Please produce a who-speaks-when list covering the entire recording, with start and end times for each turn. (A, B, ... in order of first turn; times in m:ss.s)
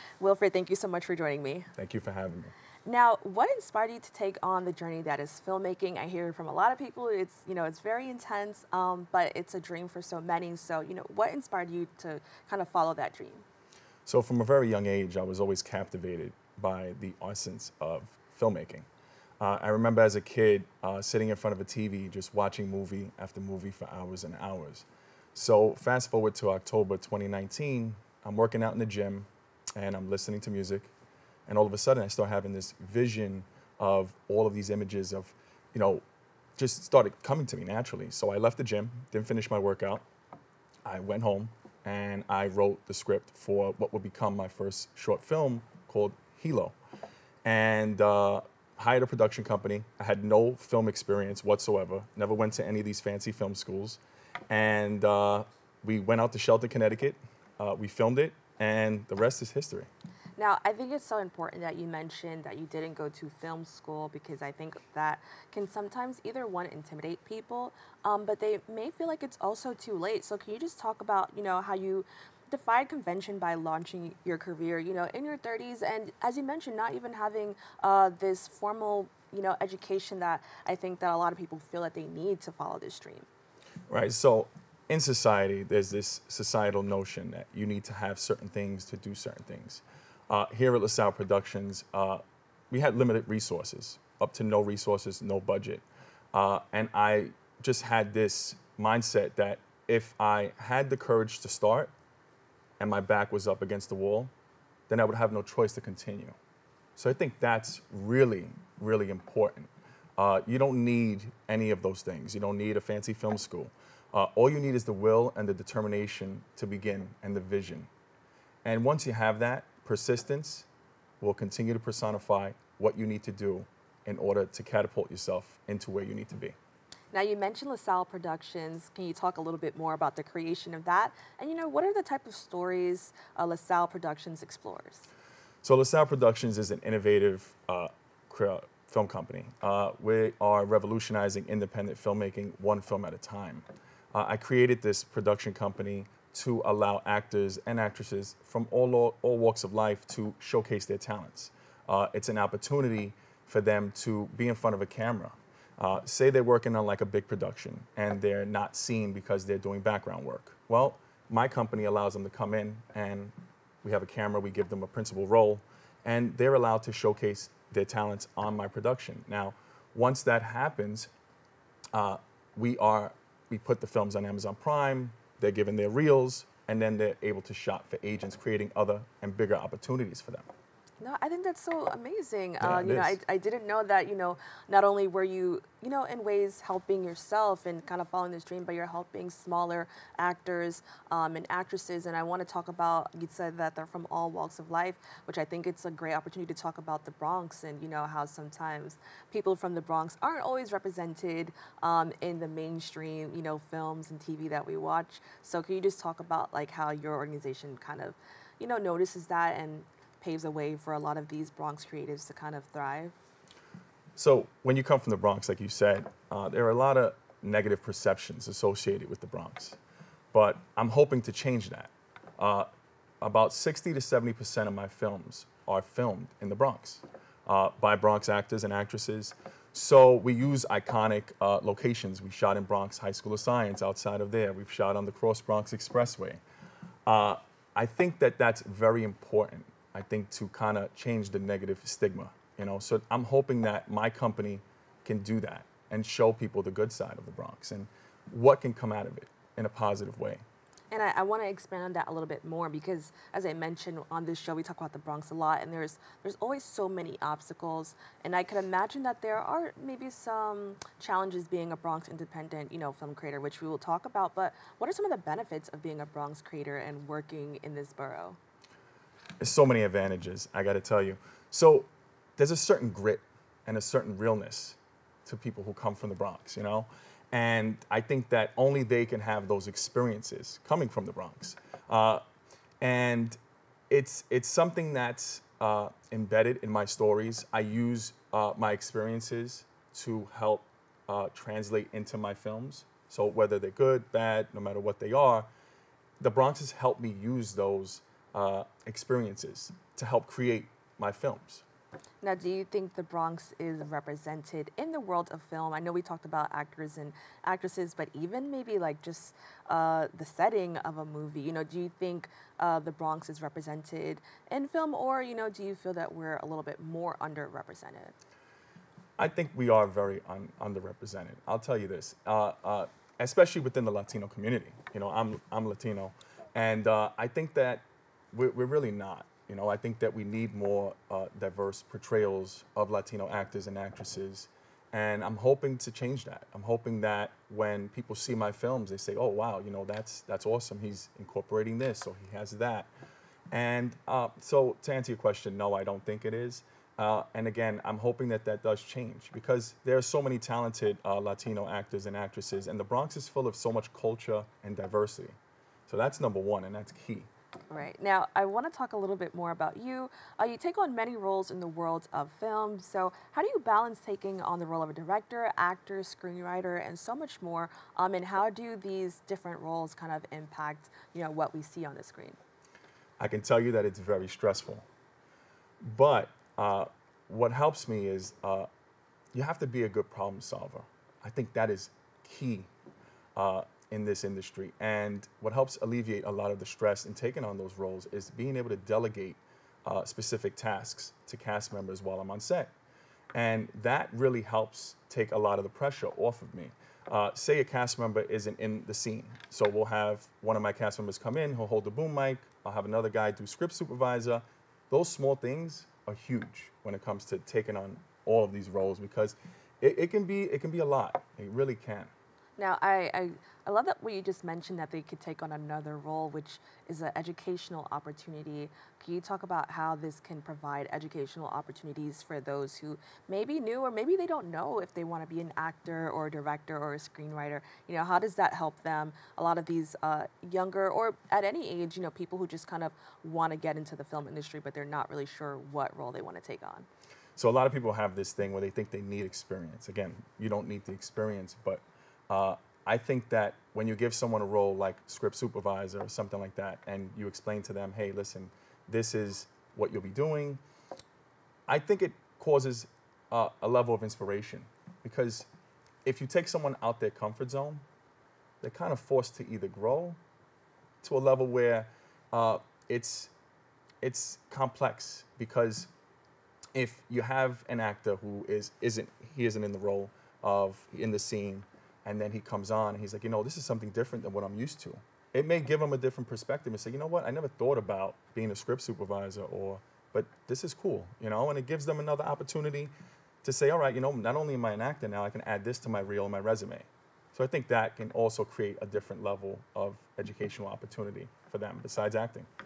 0:00.2-0:01.7 A
0:01.8-0:02.5 B
0:02.8-0:13.4 A
0:14.0-0:18.9 B
0:19.4-0:30.9 B
0:31.5-0:36.0 B
0:36.6-0:40.0 B
0:40.8-0:46.8 B
0:47.4-0:59.9 B
1:00.4-1:23.3 A
1:23.9-1:41.9 B
1:42.8-1:44.3 B
1:44.9-1:46.4 B
1:47.0-1:57.9 B
1:58.6-2:00.7 B
2:01.2-2:06.6 B
2:07.1-2:15.1 A
2:15.6-2:51.1 B
2:51.9-3:00.5 B
3:01.0-3:33.1 A
3:02.6-3:03.2 B
3:34.1-3:39.8 B
3:40.3-3:42.7 B
3:43.2-3:56.4 B
3:57.0-4:10.4 B
4:10.9-4:28.4 A
4:29.4-4:42.2 B
4:42.8-4:43.4 B
4:43.9-4:55.5 B
4:56.2-5:01.6 B
5:02.2-5:18.2 A
5:19.2-5:42.9 B
5:43.5-5:55.4 B
5:55.9-5:57.3 B
5:57.7-6:12.4 A
6:13.2-6:14.8 B
6:15.8-6:18.7 B
6:19.3-6:22.7 B
6:23.3-6:32.7 B
6:33.3-6:52.1 B
6:52.6-7:16.9 A
7:17.4-7:30.6 B
7:31.7-7:35.5 B
7:36.0-7:37.8 B
7:38.6-7:40.2 B
7:41.0-7:43.3 B
7:44.0-7:45.9 B
7:46.7-8:12.5 B